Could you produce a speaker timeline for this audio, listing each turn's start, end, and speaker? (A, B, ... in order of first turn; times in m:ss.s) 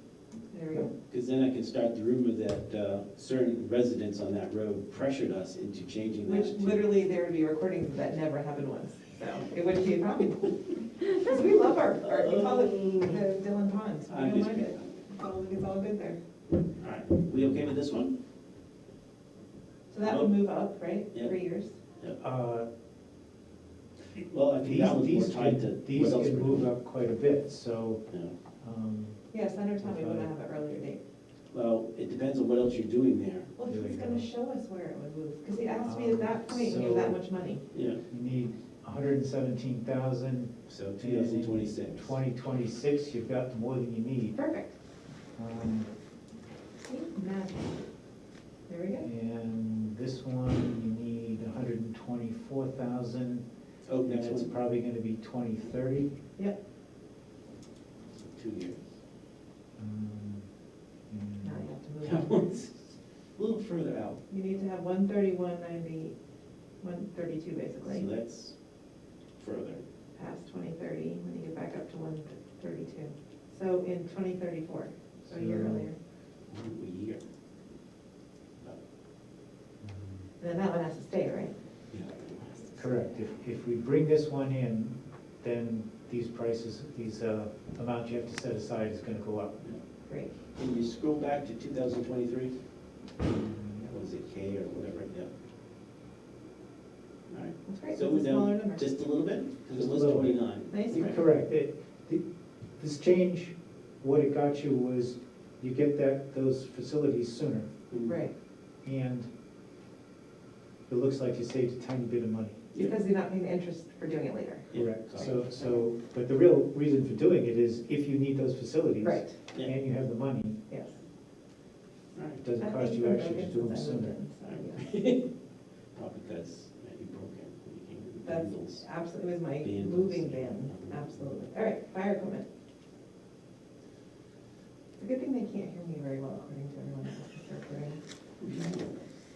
0:00.5-0:00.9 A
0:01.1-0:06.9 B
0:06.2-0:16.2 A
0:12.0-0:13.2 B
0:14.1-0:14.8 B
0:16.8-0:18.1 B
0:19.9-0:21.8 A
0:20.0-0:20.3 B
0:22.2-0:22.7 C
0:24.1-0:26.7 B
0:24.6-0:28.0 C
0:28.6-0:29.2 C
0:29.3-0:31.0 A
0:29.8-0:30.3 C
0:31.5-0:33.5 B
0:33.6-0:37.6 A
0:33.7-0:34.3 C
0:35.8-0:37.2 C
0:37.7-0:38.0 B
0:38.1-0:44.4 C
0:40.7-0:42.2 B
0:44.3-0:44.8 A
0:45.4-0:45.9 C
0:46.8-0:47.8 A
0:48.7-0:49.1 A
0:49.0-0:53.4 C
0:53.8-0:54.5 B
0:54.0-0:56.1 C
0:58.2-0:58.8 B
0:59.8-1:00.5 C
1:01.1-1:01.6 C
1:01.4-1:02.5 A
1:02.0-1:04.2 B
1:04.3-1:06.2 A
1:06.8-1:08.1 A
1:07.8-1:08.6 B
1:09.4-1:09.8 B
1:10.2-1:16.0 A
1:15.3-1:15.9 C
1:16.5-1:17.2 B
1:19.8-1:20.3 C
1:20.4-1:21.5 A
1:21.9-1:22.7 B
1:22.8-1:29.6 C
1:30.1-1:30.3 A
1:30.5-1:32.6 B
1:33.2-1:33.9 C
1:33.9-1:35.3 B
1:37.3-1:41.2 B
1:37.7-1:38.8 A
1:39.7-1:42.2 C
1:40.7-1:41.2 A
1:42.8-1:47.7 C
1:47.9-1:48.2 B
1:48.0-1:48.3 A
1:48.8-1:49.3 C
1:50.9-1:52.7 C
1:52.7-1:53.0 B
1:52.8-1:55.9 A
1:54.7-1:55.4 B
1:54.7-2:00.6 C
1:59.0-1:59.4 A
2:00.7-2:01.0 A
2:02.2-2:02.4 B
2:02.4-2:04.2 C
2:02.6-2:04.9 A
2:04.4-2:05.3 B
2:05.9-2:08.8 B
2:08.2-2:12.5 A
2:09.6-2:11.3 B
2:15.0-2:18.0 A
2:18.4-2:19.1 B